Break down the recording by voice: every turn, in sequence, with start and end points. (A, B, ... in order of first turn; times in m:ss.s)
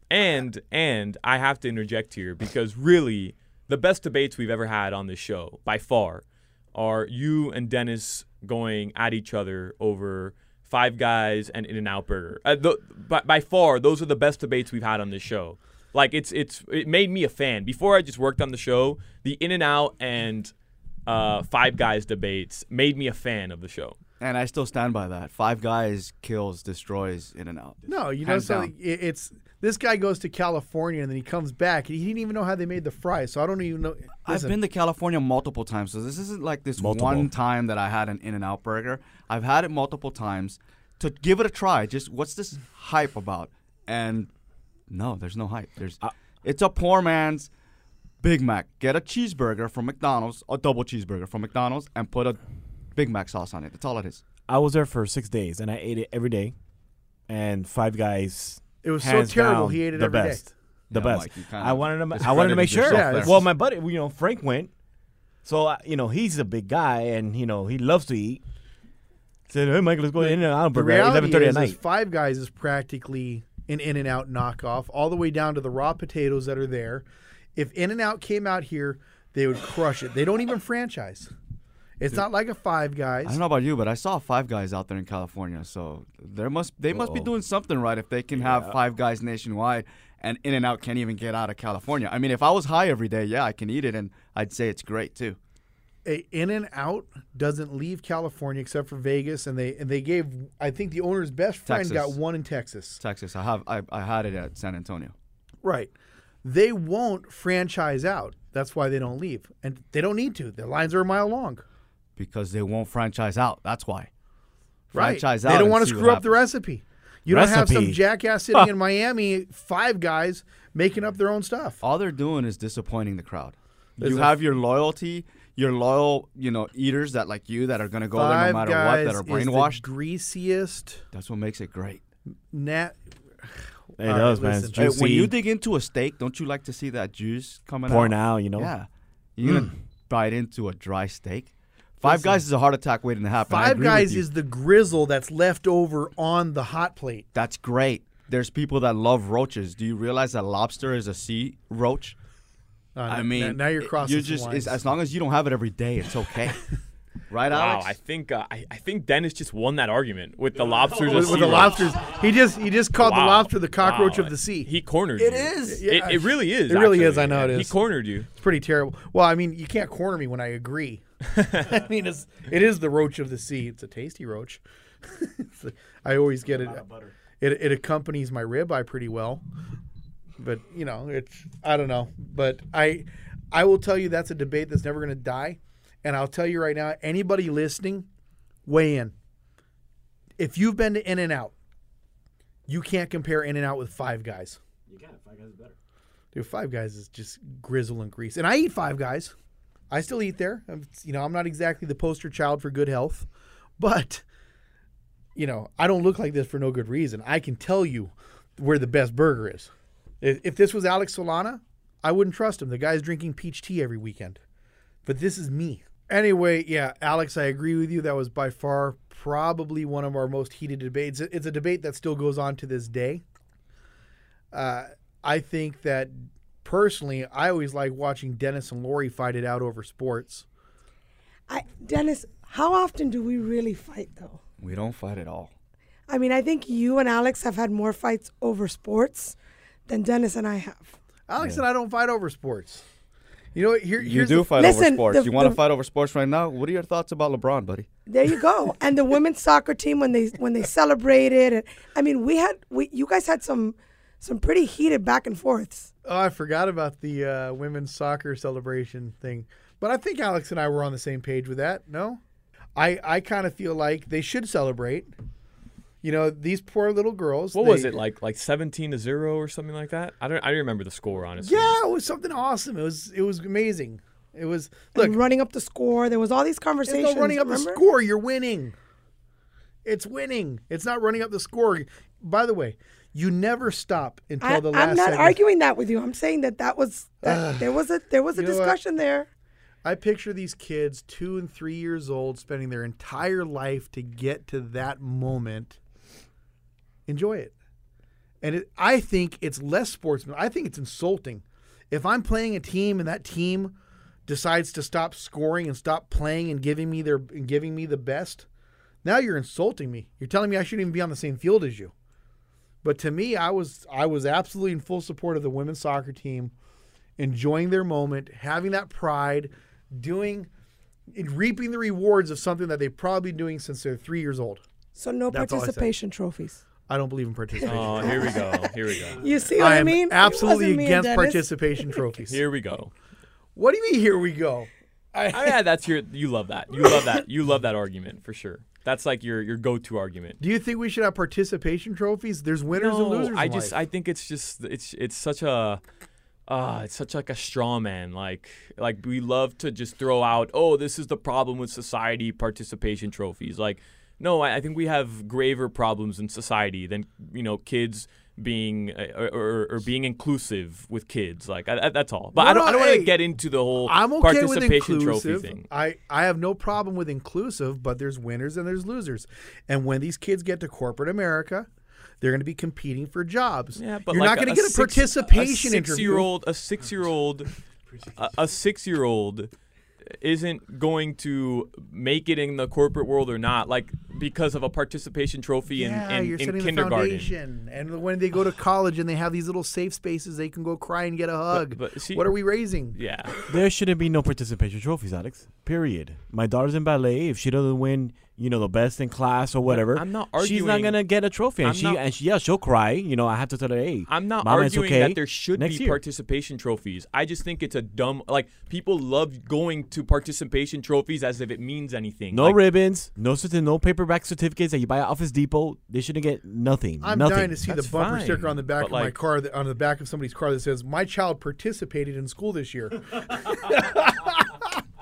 0:00.1-0:20.5 A
0:21.1-0:24.0 A
0:24.2-0:28.7 B
0:27.9-0:34.6 C
0:34.2-0:44.3 B
0:36.8-0:37.3 D
0:44.9-0:47.5 B
0:48.2-0:52.4 B
0:53.0-0:54.3 B
0:54.4-0:56.6 D
0:57.3-1:04.7 D
0:58.8-1:00.5 C
1:00.9-1:03.5 B
1:02.9-1:03.4 C
1:05.4-1:08.4 D
1:09.5-1:11.8 D
1:10.2-1:21.3 C
1:22.0-1:23.4 C
1:23.2-1:35.4 B
1:26.9-1:27.3 D
1:28.4-1:28.8 D
1:36.0-1:43.0 C
1:41.7-1:42.2 B
1:43.0-1:45.2 B
1:45.6-1:45.9 C
1:46.4-1:51.6 C
1:52.2-1:54.1 B
1:54.9-1:56.4 B
1:54.9-2:01.8 C
1:57.3-1:58.0 D
2:01.8-2:09.8 B
2:04.0-2:04.3 C
2:08.1-2:11.0 C
2:11.1-2:12.0 B
2:12.5-2:14.9 C
2:14.0-2:15.3 D
2:14.8-2:24.2 B
2:17.9-2:18.7 D
2:22.0-2:22.4 C
2:23.5-2:27.3 C
2:27.3-2:32.2 B
2:33.0-2:34.8 C
2:33.1-2:36.6 B
2:37.3-2:37.9 B
2:37.5-2:42.2 A
2:41.1-2:44.7 C
2:43.0-2:48.3 A
2:45.6-2:47.8 C
2:48.4-2:56.9 C
2:57.4-2:59.4 C
3:00.4-3:08.1 C
3:08.6-3:09.1 C
3:10.4-3:11.5 C
3:12.7-3:14.6 C
3:14.9-3:15.8 D
3:16.3-3:19.4 C
3:19.9-3:23.3 C
3:23.8-3:24.2 C
3:25.4-3:34.4 C
3:35.0-3:43.2 C
3:44.5-3:50.5 C
3:51.5-3:54.4 E
3:54.6-3:55.5 B
3:56.1-3:59.4 E
3:59.9-4:01.0 E
4:01.3-4:02.8 C
4:03.5-4:04.5 C
4:04.0-4:07.9 B
4:04.6-4:05.6 E
4:08.1-4:15.9 E
4:16.0-4:22.2 C
4:22.8-4:25.1 C
4:26.0-4:27.9 C
4:27.5-4:31.8 A
4:31.4-4:35.2 C
4:35.0-4:37.8 E
4:36.9-4:38.8 C
4:39.8-4:45.4 C
4:44.4-4:49.3 E
4:47.2-4:47.8 C
4:48.3-4:48.8 C
4:49.8-4:55.8 C
4:57.1-4:57.5 C
4:58.4-5:08.5 C
5:09.0-5:11.9 C
5:12.8-5:16.5 C
5:17.2-5:20.5 C
5:21.1-5:24.6 C
5:25.0-5:26.6 E
5:25.3-5:25.9 C
5:26.9-5:28.5 C
5:27.7-5:29.3 A
5:29.2-5:32.0 E
5:29.6-5:32.4 C
5:32.3-5:32.9 A
5:33.6-5:35.6 C
5:35.3-5:40.4 A
5:40.4-5:43.8 C
5:42.7-5:45.8 A
5:46.5-6:05.7 A
6:02.3-6:03.2 C
6:03.8-6:11.7 C
6:12.2-6:16.3 C
6:13.8-6:17.5 A
6:18.1-6:19.5 A
6:20.2-6:27.4 A
6:25.7-6:33.0 C
6:31.5-6:32.3 A
6:32.9-6:33.4 A
6:33.4-6:46.0 D
6:39.7-6:42.0 A
6:44.1-6:52.6 A
6:52.3-6:57.6 D
6:57.0-7:04.8 C
6:57.7-6:59.2 A